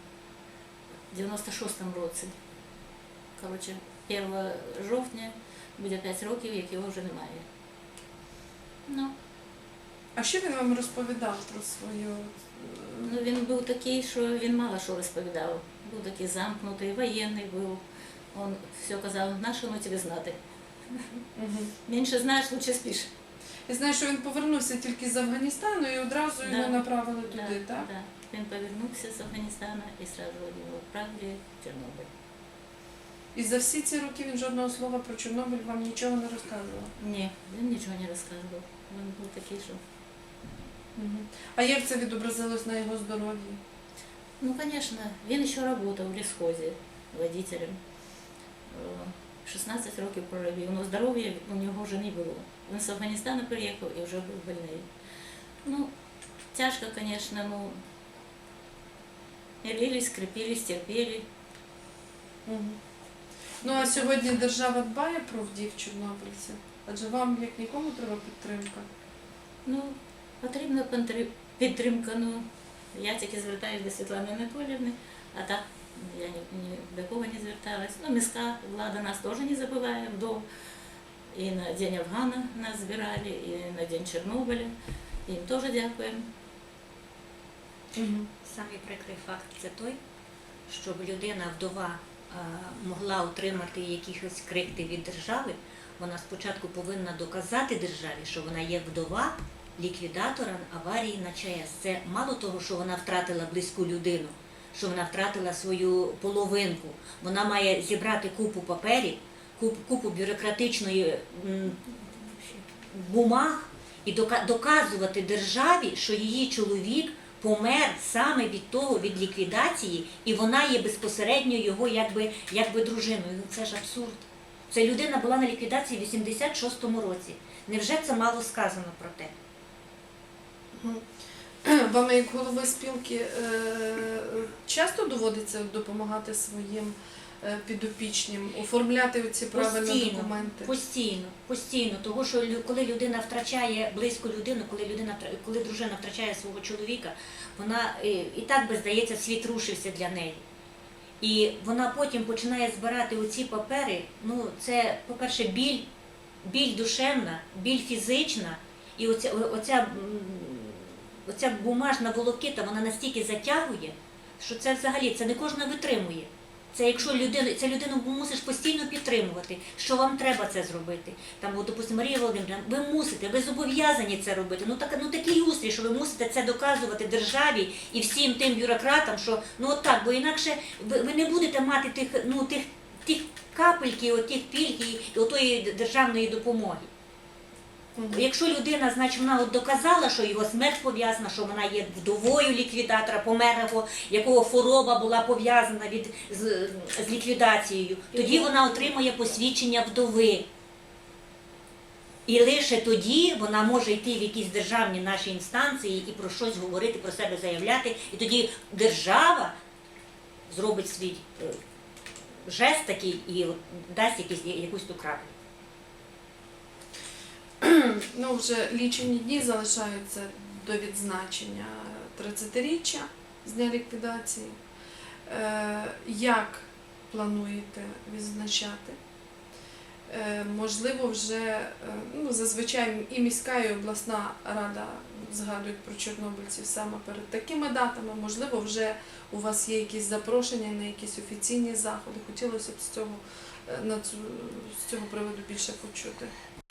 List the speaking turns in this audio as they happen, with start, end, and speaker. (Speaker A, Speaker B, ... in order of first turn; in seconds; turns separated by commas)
Speaker A: 1.1-2.4, Speaker A: 3.4-7.5, Speaker A: 8.8-9.1, Speaker B: 10.1-13.1, Speaker A: 13.0-20.4, Speaker B: 21.3-21.7, Speaker A: 21.9-23.1, Speaker B: 23.7-27.9, Speaker A: 26.4-32.1, Speaker B: 33.3-36.9, Speaker A: 37.0-39.8, Speaker B: 41.0-43.6, Speaker A: 44.4-54.9, Speaker A: 55.6-55.9, Speaker A: 56.5-57.8, Speaker A: 59.6-61.2, Speaker B: 62.5-62.8, Speaker B: 63.6-68.8, Speaker A: 63.7-64.3, Speaker A: 69.6-80.5, Speaker A: 81.3-84.7, Speaker A: 85.2-86.3, Speaker B: 88.0-88.3, Speaker C: 88.4-90.0, Speaker C: 90.7-129.3, Speaker B: 130.8-131.0, Speaker B: 131.6-140.7, Speaker C: 139.5-150.4, Speaker C: 151.2-155.9, Speaker C: 156.4-186.9, Speaker B: 188.0-188.2, Speaker C: 188.1-200.4, Speaker C: 202.2-209.5, Speaker C: 210.5-211.6, Speaker C: 212.4-215.3, Speaker B: 217.6-224.5, Speaker B: 225.2-229.0, Speaker B: 230.1-246.3